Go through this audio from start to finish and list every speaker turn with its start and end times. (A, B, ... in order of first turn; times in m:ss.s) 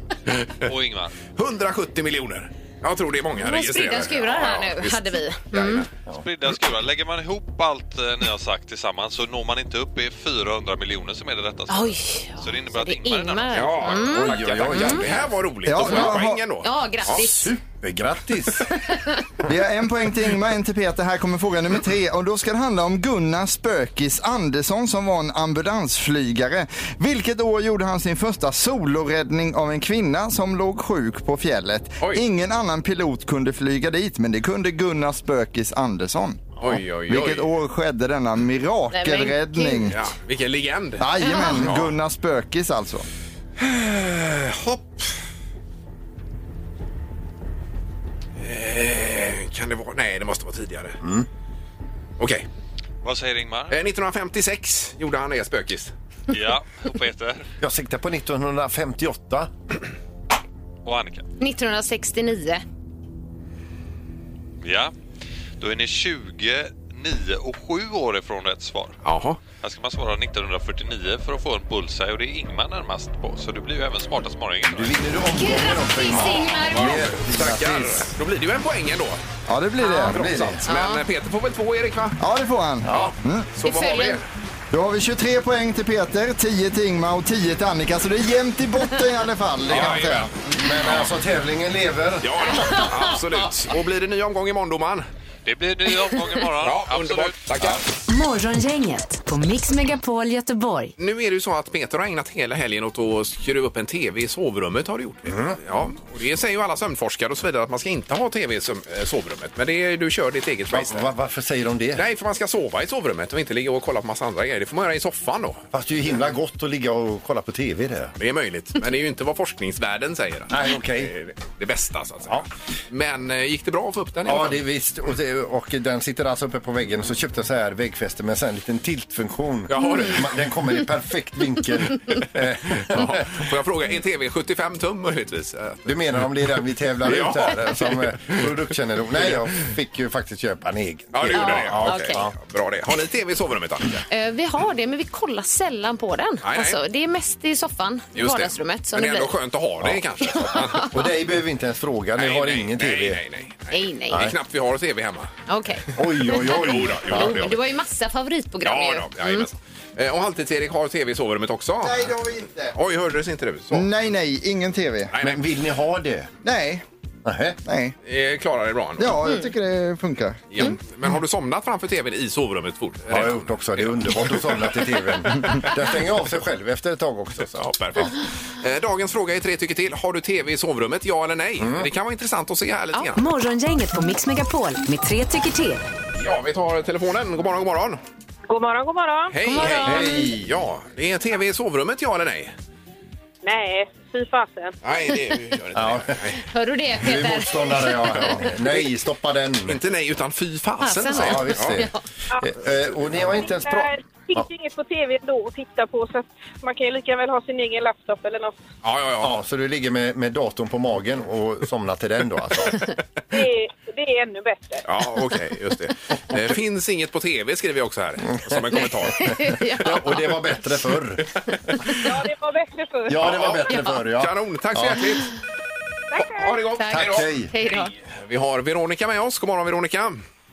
0:00.6-0:01.1 A
0:01.4-0:05.9 B
0:03.4-0:05.8 C
0:06.1-0:14.1 A
0:11.7-0:15.0 C
0:13.5-0:17.2 B
0:14.0-0:16.1 D
0:15.6-0:16.4 E
0:16.6-0:17.5 C
0:17.1-0:18.7 D
0:18.7-0:19.2 C
0:19.4-0:40.0 E
0:36.6-0:37.5 B
0:38.9-0:40.0 C
0:39.9-0:41.9 B
0:41.0-0:43.1 E
0:41.2-0:41.7 C
0:43.6-0:45.1 B
0:48.4-0:51.0 B
0:51.0-0:51.3 D
0:52.2-0:52.4 B
0:53.0-0:53.8 A
0:53.7-0:55.9 B
0:56.3-0:57.4 A
0:57.6-0:59.5 D
1:00.8-1:01.2 A
1:01.4-1:02.6 C
1:04.6-1:04.9 A
1:05.6-1:09.0 A
1:09.0-1:09.4 B
1:09.6-1:15.0 A
1:14.7-1:18.1 D
1:15.3-1:17.0 C
1:16.2-1:19.2 B
1:19.5-1:20.2 E
1:19.8-1:20.1 C
1:20.0-1:20.6 D
1:20.0-1:22.2 B
1:20.6-1:21.0 C
1:22.2-1:23.5 E
1:22.8-1:23.1 D
1:22.9-1:24.2 B
1:23.6-1:24.2 C
1:24.7-1:30.3 E
1:29.7-1:30.3 B
1:30.5-1:32.8 D
1:30.8-1:31.1 B
1:32.2-1:35.0 B
1:32.6-1:33.0 C
1:35.4-1:37.4 A
1:36.6-1:37.8 B
1:38.1-1:40.9 F
1:41.0-1:51.1 B
1:45.2-1:45.6 D
1:50.7-1:52.0 D
1:51.9-1:55.6 B
1:55.7-1:58.1 D
1:58.2-2:04.6 B
2:00.5-2:01.1 D
2:04.2-2:13.4 D
2:09.7-2:10.5 B
2:09.8-2:10.1 C
2:12.8-2:16.0 B
2:15.8-2:22.3 D
2:17.0-2:18.5 B
2:21.1-2:24.0 B
2:21.3-2:22.2 C
2:24.1-2:29.3 C
2:26.4-2:26.8 B
2:28.2-2:31.0 B
2:30.3-2:30.8 C
2:30.7-2:33.2 D
2:32.2-2:35.3 B
2:33.7-2:34.3 C
2:35.5-2:39.5 C
2:36.0-2:37.5 D
2:36.3-2:37.6 B
2:38.6-2:42.1 B
2:41.8-2:42.8 E
2:42.7-2:43.9 B
2:43.7-2:45.1 E
2:45.1-2:45.4 B
2:45.2-2:46.3 D
2:46.4-2:46.8 E
2:47.2-2:47.6 D
2:47.6-2:48.0 E
2:48.0-2:49.2 B
2:49.0-2:50.7 E
2:49.2-2:49.5 C
2:50.5-2:55.7 B
2:53.1-2:58.1 D
2:57.4-3:03.2 B
3:01.6-3:01.9 D
3:03.1-3:05.8 F
3:06.2-3:08.0 B
3:08.5-3:09.3 G
3:09.3-3:12.5 B
3:09.4-3:10.3 C
3:09.6-3:10.6 D
3:13.4-3:14.8 G
3:14.8-3:16.4 B
3:15.7-3:16.2 D
3:16.5-3:18.3 C
3:17.0-3:19.8 D
3:19.7-3:21.8 B
3:20.8-3:22.0 C
3:21.1-3:24.4 D
3:23.4-3:28.6 G
3:28.8-3:29.3 B
3:29.2-3:32.8 D
3:33.3-3:34.8 G
3:34.8-3:39.3 B
3:38.2-3:41.3 D
3:39.1-3:40.2 C
3:41.9-3:43.6 G
3:43.1-3:45.2 D
3:43.2-3:45.3 B
3:43.7-3:44.0 C
3:46.1-3:46.6 G
3:46.2-3:50.2 B
3:46.8-3:47.9 C
3:46.9-3:47.5 D